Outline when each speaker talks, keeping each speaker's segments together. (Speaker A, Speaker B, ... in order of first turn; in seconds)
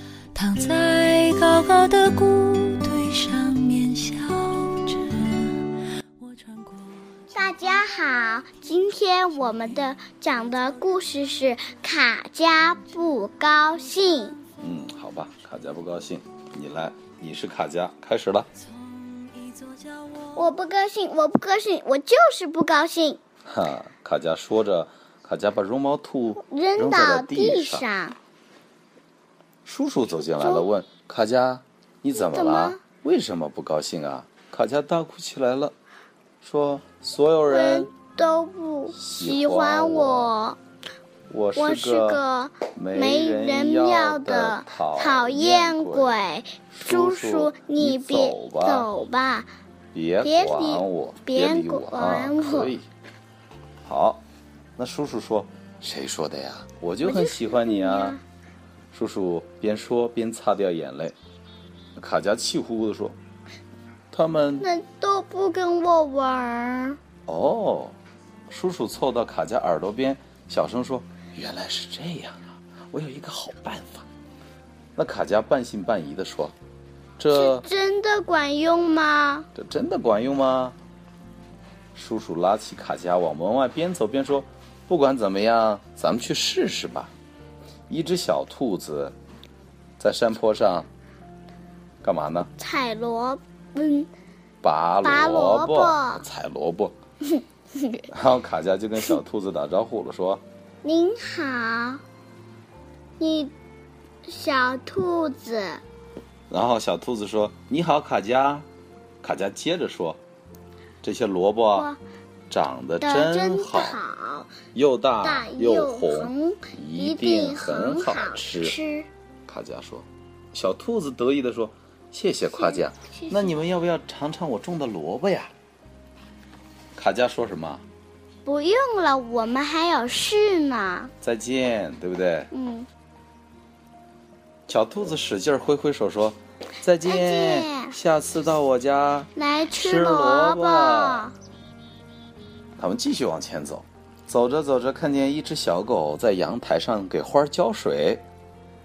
Speaker A: 0.3-7.3, 18.6-20.5
Speaker B: 7.3-14.4, 20.4-23.2, 26.4-28.2, 30.3-30.7, 32.1-32.8, 37.5-40.6, 41.5-49.5, 50.2-52.8, 57.0-58.2, 64.6-67.0, 77.3-79.5, 92.6-94.1, 95.0-96.3, 97.4-98.0, 100.8-102.0, 103.2-103.5, 104.3-105.8, 111.7-112.0, 113.0-114.6, 115.2-119.1, 122.5-123.6, 128.4-131.1, 132.5-132.9, 137.0-138.0, 139.4-141.3
Speaker C: 14.6-18.5, 23.4-27.9, 29.6-35.7, 36.4-37.9, 38.9-40.3, 41.3-42.2, 42.7-46.2, 46.8-48.9, 49.9-52.9, 53.9-54.2, 54.8-58.2, 58.9-61.2, 62.0-63.2, 64.1-64.7, 67.3-68.0, 68.5-74.1, 75.0-76.5, 77.2-77.7, 79.5-80.8, 82.0-87.1, 87.9-89.2, 90.0-90.9, 92.0-92.5, 94.6-96.9, 98.1-100.4, 106.5-108.7, 109.2-110.2, 111.0-111.9, 112.5-114.0, 114.7-118.8, 119.5-125.5, 127.0-127.8, 131.2-132.5, 134.7-141.3, 142.8-148.2